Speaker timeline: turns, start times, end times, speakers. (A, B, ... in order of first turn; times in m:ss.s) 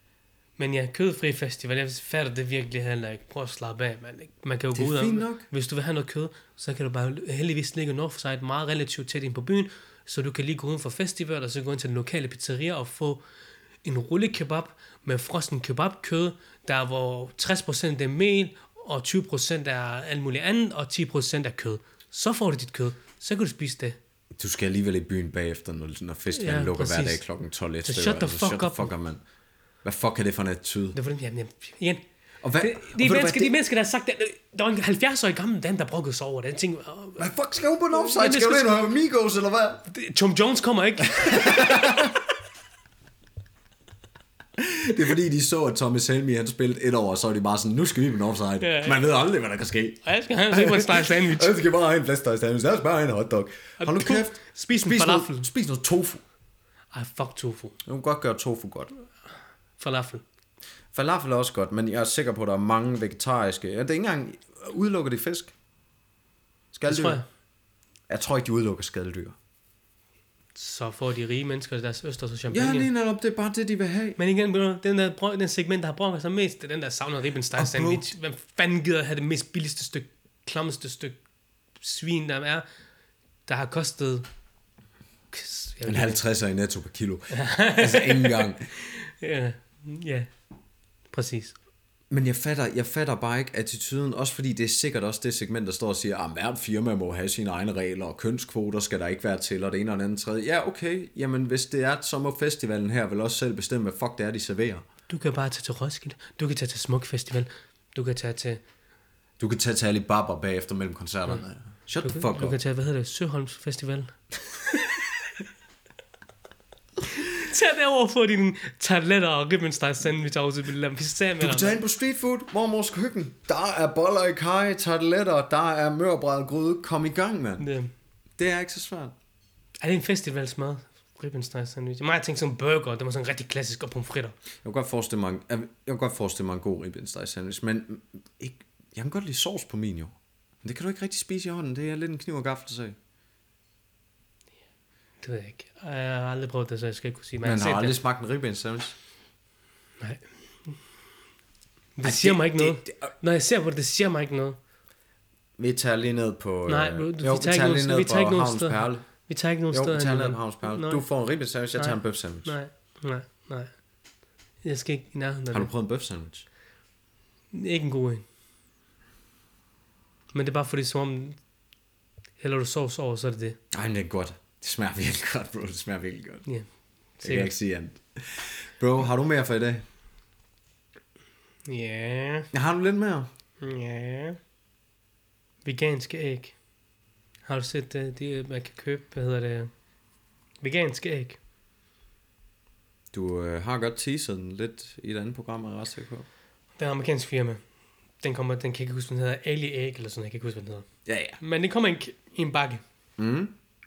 0:00.6-0:13.2 A
0:04.7-0:05.5 B
0:13.8-0:24.0 A
0:24.4-0:29.2 B
0:26.3-0:27.2 A
0:27.8-0:28.9 A
0:29.8-0:31.0 B
0:30.9-0:32.0 A
0:32.4-0:33.6 B
0:32.6-0:37.3 A
0:37.2-0:39.9 B
0:37.9-0:38.8 A
0:39.9-0:42.1 A
0:41.2-0:42.2 B
0:44.6-0:50.0 B
0:48.6-0:49.0 A
0:50.0-0:51.6 A
0:50.5-0:56.2 B
0:53.8-0:55.5 A
0:56.9-0:57.8 A
0:57.8-0:58.9 B
0:59.8-1:00.2 A
1:00.9-1:05.5 B
1:06.7-1:07.2 B
1:06.9-1:07.2 A
1:08.1-1:09.4 B
1:10.6-1:12.9 A
1:12.5-1:14.2 B
1:14.2-1:21.2 A
1:17.6-1:18.1 B
1:21.8-1:22.6 A
1:23.5-1:24.2 A
1:25.3-1:26.2 A
1:25.8-1:28.7 B
1:27.3-1:30.3 A
1:31.1-1:31.6 A
1:32.1-1:44.9 B
1:45.1-1:48.6 A
1:49.4-1:52.6 B
1:52.0-1:54.9 A
1:57.1-2:01.8 A
2:01.4-2:07.7 B
2:07.6-2:07.9 A
2:08.4-2:09.1 B
2:09.8-2:14.4 A
2:14.6-2:23.0 B
2:25.2-2:28.0 A
2:27.4-2:29.0 B
2:30.0-2:30.8 A
2:32.0-2:34.6 A
2:32.0-2:33.1 B
2:35.6-2:39.1 B
2:36.7-2:41.0 A
2:39.7-2:42.5 B
2:41.8-2:43.7 A
2:44.6-2:45.7 A
2:45.5-2:46.4 B
2:47.5-2:48.2 A
2:50.3-2:51.4 A
2:52.4-2:53.6 A
2:53.7-2:56.5 B
2:57.2-2:57.5 A
2:57.2-2:59.8 B
3:01.7-3:02.5 A
3:02.5-3:03.3 B
3:03.6-3:04.4 A
3:05.6-3:06.6 A
3:07.5-3:09.7 A
3:10.6-3:11.4 A
3:13.1-3:16.3 B
3:16.8-3:17.6 A
3:18.2-3:20.9 A
3:21.1-3:21.4 B
3:21.4-3:22.8 A
3:23.2-3:23.5 B